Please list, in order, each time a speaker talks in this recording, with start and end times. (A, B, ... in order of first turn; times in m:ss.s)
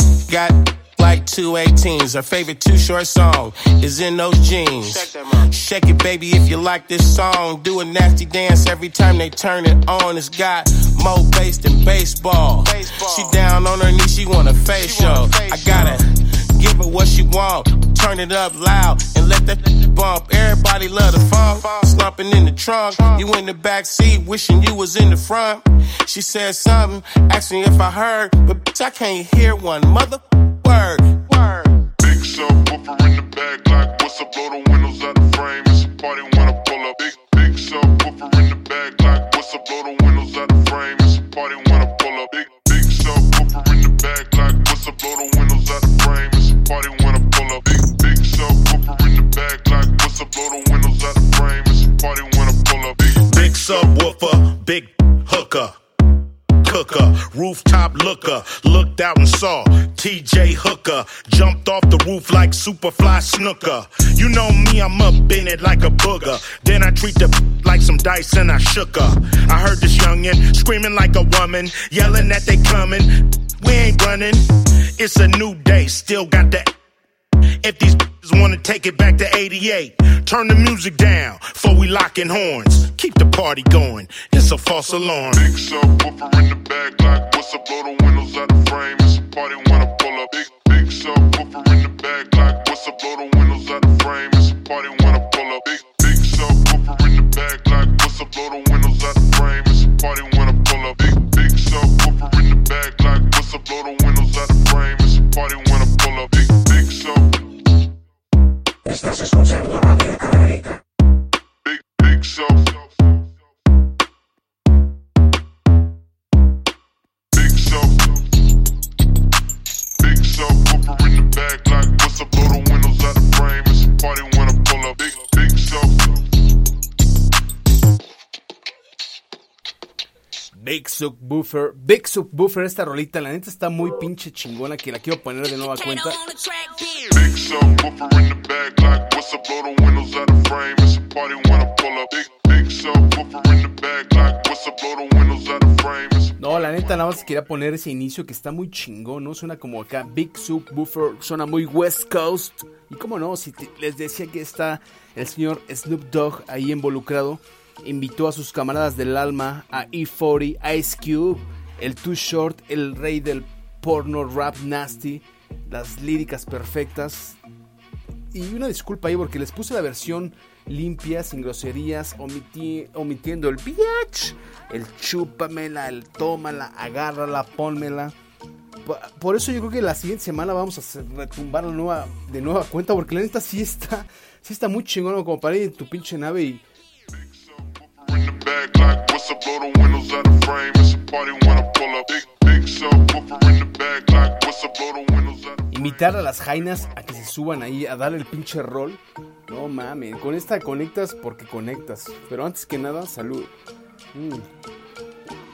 0:00.3-0:31.7 A
0:32.0-0:53.8 B
0:53.2-0:55.8 C
0:56.6-1:16.8 C
1:17.6-1:25.5 C
1:25.3-1:47.4 B
1:51.6-1:53.2 B
1:57.3-1:58.2 B
2:00.0-2:06.2 B
2:10.6-2:16.3 D
2:17.1-2:26.4 B
2:26.4-2:47.4 D
2:48.3-2:58.1 D
2:58.8-3:06.6 D
3:07.1-3:16.2 B
3:15.7-3:23.5 D
3:24.1-3:24.4 D